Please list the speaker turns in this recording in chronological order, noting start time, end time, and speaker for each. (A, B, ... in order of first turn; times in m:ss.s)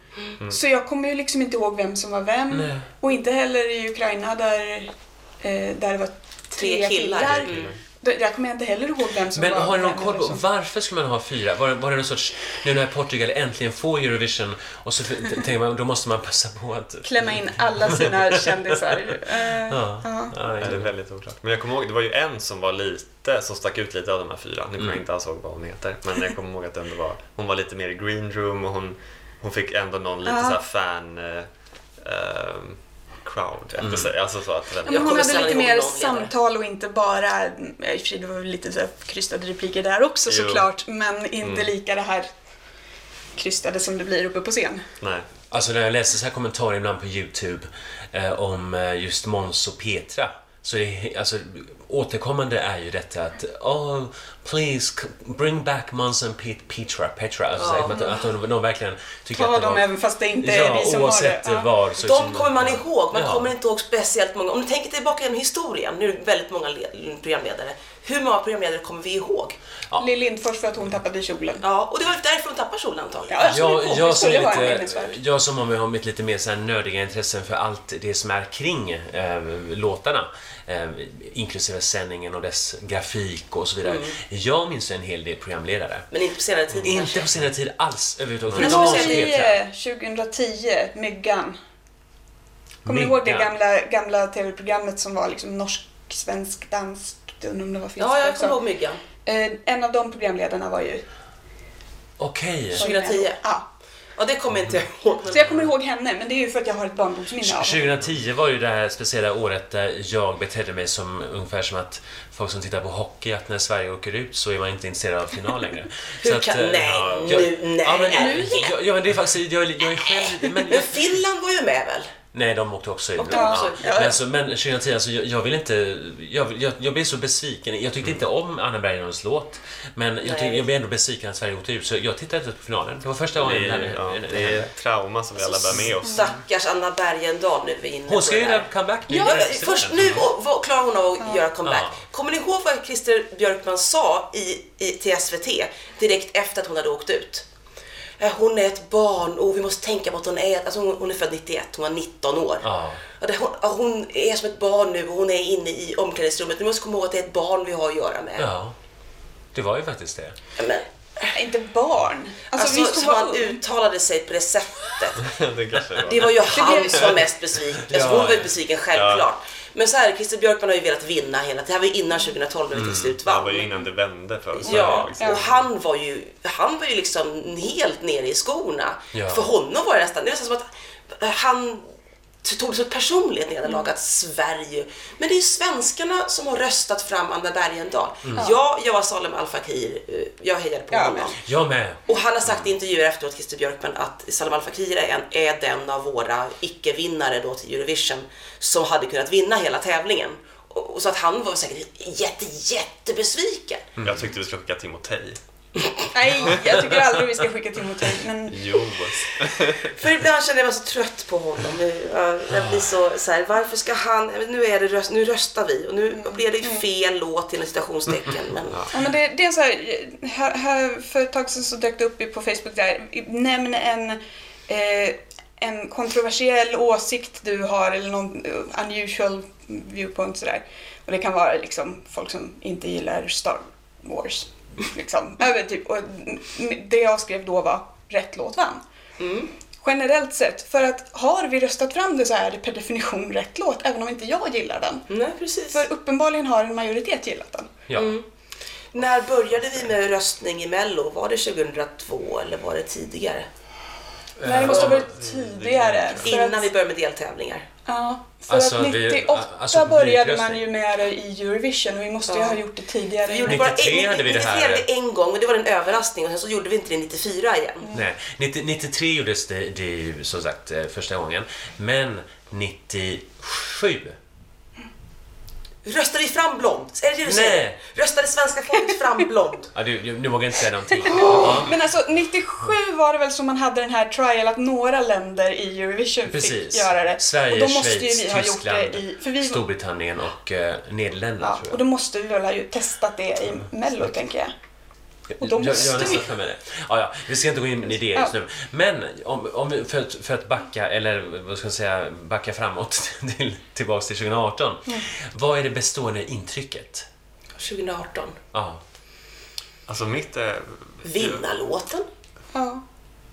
0:00.4-0:10.4 A
0:02.5-0:02.8 B
0:06.6-0:07.8 C
0:07.2-0:07.8 D
0:09.3-0:18.2 B
0:17.0-0:20.4 A
0:19.7-0:20.9 B
0:20.6-0:35.4 D
0:30.2-0:30.6 A
0:33.8-0:34.1 B
0:34.8-0:42.3 A
0:34.9-0:36.3 C
0:40.3-0:40.7 D
0:41.4-0:41.7 D
0:43.3-0:44.8 A
0:45.0-0:45.3 D
0:45.5-0:59.9 B
0:57.6-0:58.2 C
0:59.3-1:01.7 A
1:00.4-1:03.5 B
1:02.0-1:09.6 C
1:10.0-1:11.6 A
1:11.6-1:13.7 C
1:13.3-1:15.2 A
1:13.5-1:26.1 B
1:23.8-1:24.1 C
1:26.1-1:27.3 C
1:26.8-1:29.6 B
1:28.5-1:29.4 C
1:28.6-1:31.6 A
1:32.8-1:33.5 B
1:32.8-1:38.6 A
1:38.0-1:39.0 C
1:39.2-1:41.0 A
1:42.2-1:42.8 B
1:42.7-1:43.6 A
1:42.8-1:43.4 C
1:44.2-1:45.7 C
1:45.3-1:47.8 A
1:47.4-2:01.0 B
1:56.2-1:58.7 C
1:57.0-1:57.4 D
1:58.1-1:58.6 A
2:00.6-2:02.1 C
2:02.3-2:14.7 B
2:03.2-2:04.1 C
2:03.3-2:04.1 A
2:10.2-2:10.6 C
2:13.3-2:16.3 D
2:15.4-2:27.4 C
2:18.1-2:20.2 B
2:19.1-2:19.4 A
2:19.8-2:20.2 D
2:21.6-2:22.0 B
2:28.2-2:38.5 C
2:32.6-2:33.0 B
2:38.4-2:38.8 B
2:39.5-2:40.4 B
2:40.6-2:41.3 C
2:41.3-2:43.6 A
2:42.5-2:45.3 C
2:45.2-2:47.2 D
2:46.0-2:53.8 C
2:46.5-2:47.2 A
2:47.8-2:48.5 B
2:48.9-2:49.3 D
2:52.7-2:53.1 B
2:53.2-2:55.6 D
2:54.6-3:01.8 C
2:54.6-2:55.1 B
2:59.1-2:59.5 B
3:02.4-3:11.4 C
3:08.2-3:08.5 B
3:10.9-3:11.3 A
3:11.4-3:12.7 B
3:12.1-3:23.8 C
3:24.0-3:24.3 B
3:24.0-3:25.4 D
3:26.1-3:28.9 A
3:28.5-3:30.0 D
3:29.9-3:38.9 C
3:32.5-3:32.9 B
3:36.1-3:36.8 A
3:38.9-3:58.8 A
3:59.2-3:59.5 C
3:59.8-4:05.0 A
4:05.1-4:05.8 C
4:05.7-4:07.7 A
4:07.9-4:08.1 B
4:08.0-4:08.2 C
4:08.9-4:13.5 C
4:14.4-4:15.1 B
4:14.4-4:16.7 A
4:14.6-4:15.0 C
4:15.1-4:16.3 D
4:16.2-4:17.6 C
4:17.9-4:23.6 A
4:18.5-4:20.7 B
4:22.3-4:22.6 C
4:23.2-4:27.8 C
4:23.4-4:24.8 B
4:27.9-4:34.2 B
4:35.8-4:39.7 C
4:37.2-4:37.8 B
4:39.7-4:41.7 B
4:41.0-4:49.6 A
4:41.2-4:41.5 C
4:46.3-4:51.8 B
4:51.4-4:54.5 A
4:55.4-4:56.2 A
4:55.4-5:07.1 B
5:07.6-5:08.4 C
5:08.5-5:08.8 B
5:09.9-5:11.4 D
5:11.0-5:12.0 C
5:12.5-5:12.8 A